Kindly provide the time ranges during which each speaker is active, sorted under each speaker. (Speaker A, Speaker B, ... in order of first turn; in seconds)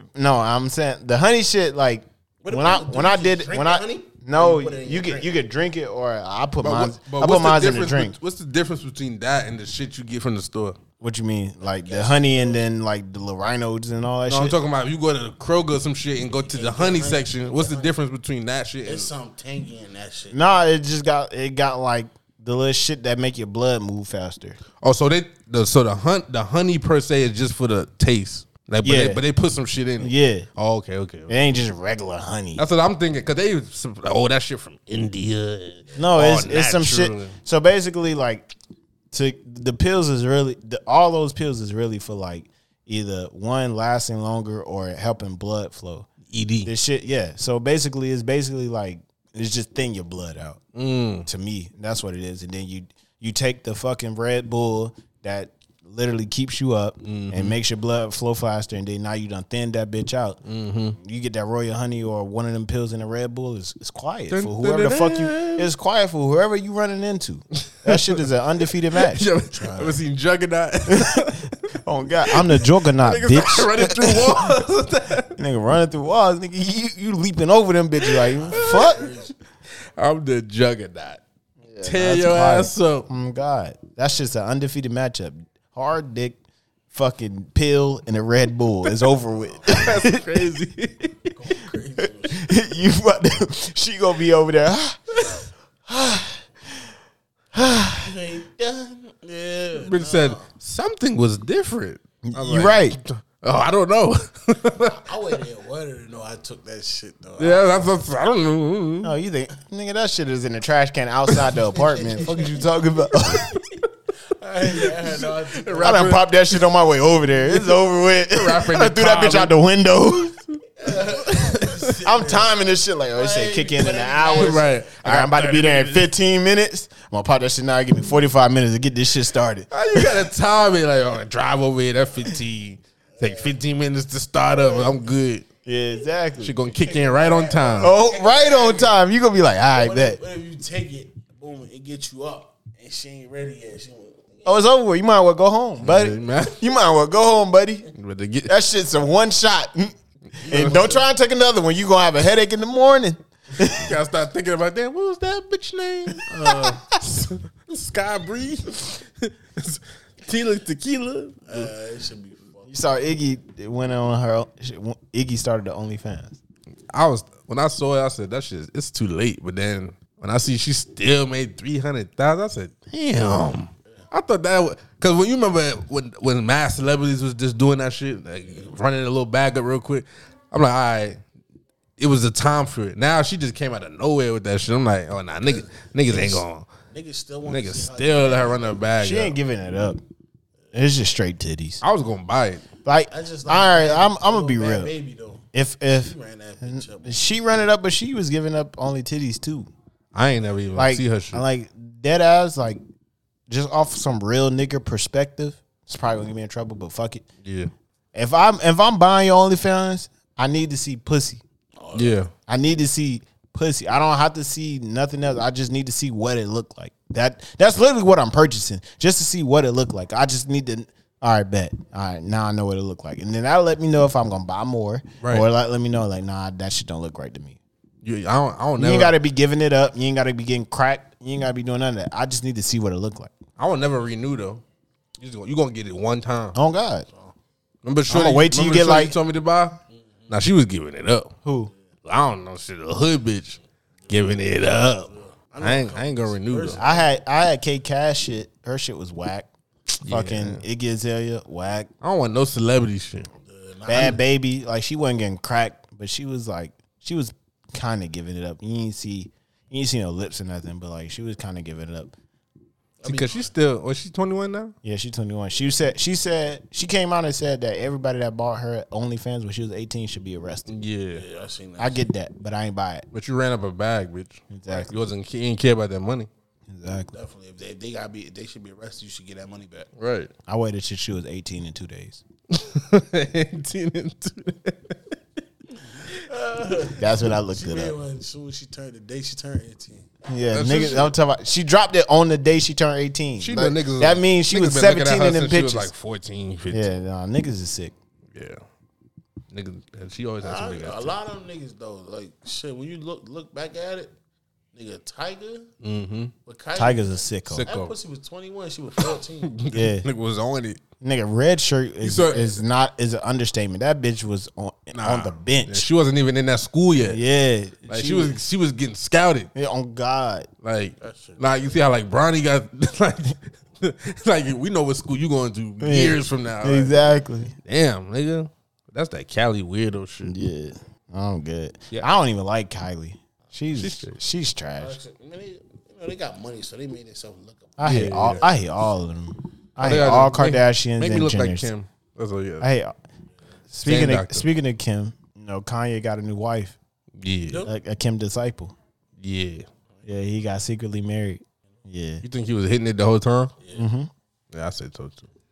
Speaker A: 0.1-8.2, 11.0-14.6, 20.3-24.6, 28.8-29.2, 30.0-30.5, 31.3-32.7, 36.0-38.5, 39.1-46.1, 46.6-50.6, 51.3-60.4, 61.0-69.2, 70.9-74.5, 75.3-79.1, 81.6-86.4, 86.9-90.2, 92.0-95.4, 95.9-96.4, 97.5-98.1, 102.2-103.0, 109.0-113.5, 115.8-120.4, 122.0-130.2, 135.7-136.6, 137.8-140.2, 144.4-147.9, 148.4-153.9, 156.4-156.8, 162.7-166.4, 189.0-190.0, 190.7-191.8, 192.8-194.9, 195.5-199.7, 200.7-202.8, 203.5-207.3, 208.1-211.4, 212.5-227.6, 228.8-233.3, 236.6-237.1, 238.1-239.1, 241.4-241.7, 246.8-249.5, 250.0-251.9, 253.9-262.1, 264.8-270.7, 271.8-273.1, 274.5-275.0, 276.7-277.1, 280.5-282.2, 287.0-287.9, 290.3-295.9, 296.7-297.9, 306.8-307.7, 309.7-310.1, 311.0-315.9, 317.0-318.4, 319.6-320.5, 325.8-327.6, 330.3-335.0, 337.8-341.7, 342.6-342.9, 343.7-346.8, 347.6-348.7, 350.1-352.2, 353.7-354.1
Speaker B: 2.4-5.4, 11.6-12.6, 16.3-17.9, 18.9-20.4, 69.5-70.0, 78.4-79.3, 89.3-90.2, 91.3-92.5, 98.0-100.5, 104.8-108.0, 111.4-113.5, 114.4-116.2, 120.8-124.9, 133.1-133.6, 134.6-135.1, 136.6-139.0, 139.7-144.7, 150.5-151.0, 156.3-156.6, 161.5-162.8, 185.4-188.8, 193.1-197.3, 211.8-212.3, 237.1-237.3, 244.1-247.1, 253.4-254.2, 263.0-263.5, 271.1-272.0, 277.1-279.9, 285.9-290.1, 300.4-304.1, 304.7-305.7, 306.4-309.6, 312.3-312.6, 321.0-321.7, 334.8-339.0, 347.5-347.7, 353.6-353.9
Speaker C: 6.6-10.8, 14.3-19.1, 24.8-31.3, 32.6-37.4, 46.3-46.7, 50.7-51.3, 57.0-57.6, 60.5-61.0, 64.3-65.7, 67.6-67.9, 69.0-71.5, 72.3-75.4, 78.1-79.0, 80.0-81.2, 81.8-83.1, 89.7-91.3, 99.8-105.0, 107.4-109.1, 114.8-116.3, 118.3-119.5, 120.9-121.7, 124.4-126.1, 129.7-135.4, 136.4-137.9, 145.8-146.6, 147.9-148.5, 150.4-150.8, 153.6-161.7, 166.9-181.2, 182.0-186.7, 187.5-189.3, 191.8-192.6, 200.1-201.4, 207.4-207.7, 211.9-212.3, 225.2-225.5, 228.0-229.2, 233.6-234.6, 235.2-236.6, 237.8-241.3, 242.1-246.8, 250.0-250.6, 252.0-253.3, 263.1-264.7, 270.7-271.2, 273.1-276.3, 280.0-280.3, 282.5-285.0, 290.5-291.1, 293.4-297.0, 298.3-298.6, 299.5-301.2, 305.8-306.3, 307.6-307.9, 309.4-310.8, 312.0-312.4, 314.9-317.2, 317.9-319.5, 320.6-327.0, 327.6-330.3, 333.7-334.2, 337.8-338.4, 339.8-342.7, 343.8-344.5, 347.2-347.6, 349.2-349.7, 352.2-353.5, 354.5-355.3